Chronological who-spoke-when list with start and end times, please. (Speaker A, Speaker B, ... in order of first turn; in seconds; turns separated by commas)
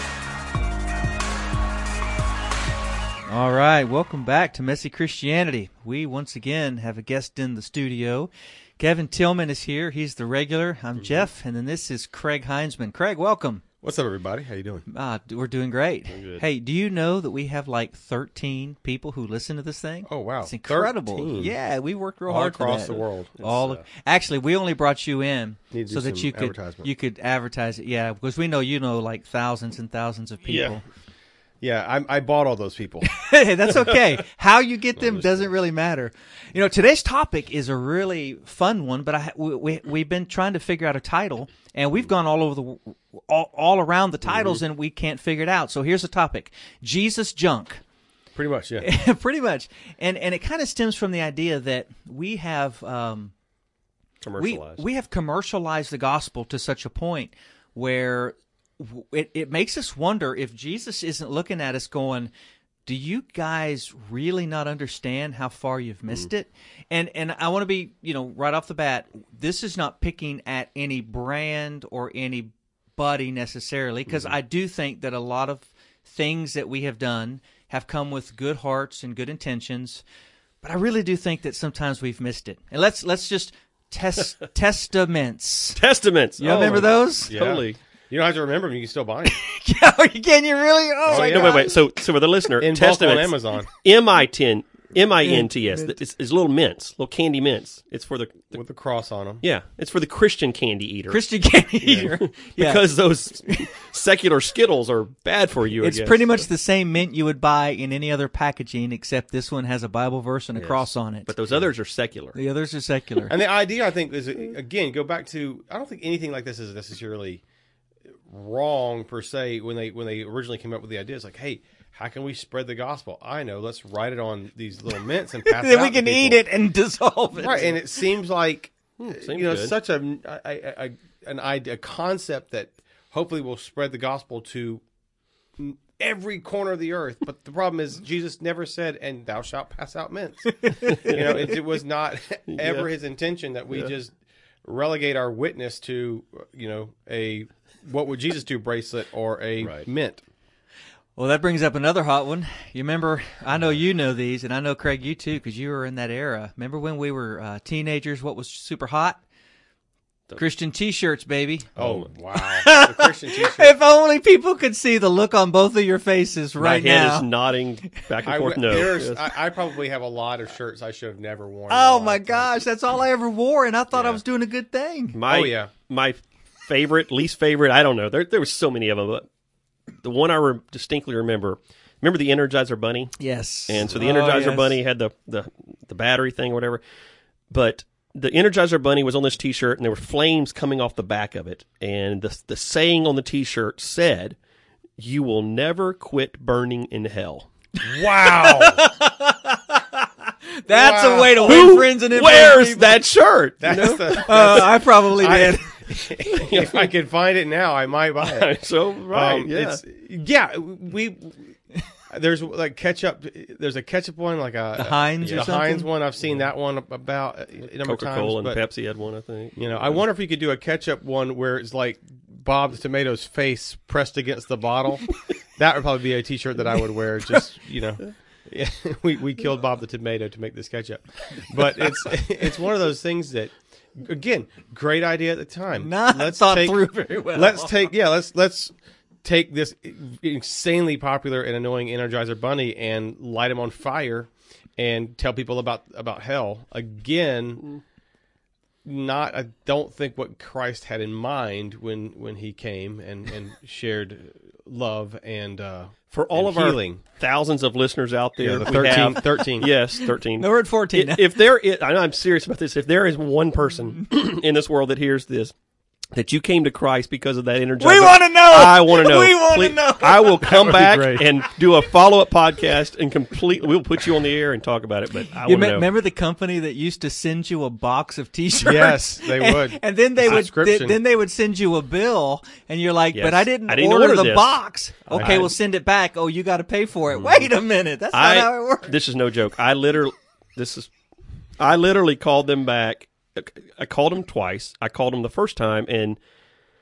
Speaker A: 3.3-13.6, Speaker B: 11.0-11.3, Speaker C: 13.8-14.8, Speaker A: 14.9-30.9, Speaker B: 16.1-16.4, Speaker C: 20.1-21.6, Speaker C: 22.3-23.4, Speaker B: 23.4-23.8, Speaker C: 25.7-26.9, Speaker B: 30.5-30.7, Speaker C: 31.6-33.1, Speaker A: 33.0-47.8, Speaker C: 35.0-35.5, Speaker B: 44.3-44.6, Speaker C: 48.4-48.9, Speaker A: 48.8-53.3, Speaker B: 54.2-54.8, Speaker A: 54.4-62.3, Speaker A: 62.9-80.0, Speaker B: 74.1-74.3, Speaker A: 80.6-85.8, Speaker B: 85.8-87.8, Speaker A: 86.4-87.3, Speaker C: 87.3-89.4, Speaker A: 89.3-91.8, Speaker C: 91.1-91.7, Speaker B: 91.1-98.6, Speaker C: 92.6-93.7, Speaker A: 95.2-96.0, Speaker C: 98.5-99.4, Speaker B: 99.4-101.2, Speaker A: 101.1-102.9, Speaker B: 101.8-106.5, Speaker A: 105.8-111.3, Speaker B: 110.6-112.4, Speaker A: 112.3-113.3, Speaker C: 113.3-117.4, Speaker C: 118.3-126.4, Speaker A: 125.4-127.8, Speaker C: 127.4-134.8, Speaker B: 129.0-129.8, Speaker C: 135.6-150.2, Speaker A: 140.5-141.1, Speaker B: 140.9-141.6, Speaker B: 142.5-142.9, Speaker B: 149.6-149.9, Speaker A: 151.2-159.2, Speaker A: 160.4-161.7, Speaker C: 161.8-163.7, Speaker B: 161.8-162.1, Speaker A: 162.3-167.3, Speaker B: 166.6-169.2, Speaker C: 168.2-172.5, Speaker A: 171.7-175.2, Speaker B: 173.9-174.2, Speaker B: 175.1-179.3, Speaker C: 175.3-175.7, Speaker B: 180.0-186.8, Speaker A: 183.2-184.8, Speaker B: 187.5-194.4, Speaker B: 195.0-197.5, Speaker C: 197.8-198.8, Speaker A: 198.2-199.8, Speaker A: 200.6-203.0, Speaker C: 200.7-201.8, Speaker B: 201.4-204.7, Speaker C: 203.6-208.5, Speaker A: 204.1-206.3, Speaker B: 206.3-206.9, Speaker B: 208.2-209.8, Speaker C: 209.1-211.6, Speaker C: 212.1-218.6, Speaker A: 214.8-215.9, Speaker B: 217.8-220.0, Speaker C: 219.6-247.7, Speaker A: 235.8-237.7, Speaker C: 248.8-257.0, Speaker B: 256.1-265.6, Speaker C: 258.4-259.7, Speaker A: 259.2-259.5, Speaker A: 260.0-261.3, Speaker B: 266.1-275.9, Speaker A: 267.8-271.2, Speaker C: 270.4-271.3, Speaker A: 275.4-288.9, Speaker C: 278.6-281.0, Speaker B: 283.1-285.5, Speaker C: 285.1-285.5, Speaker B: 287.1-287.5, Speaker B: 288.1-290.9, Speaker B: 291.6-296.2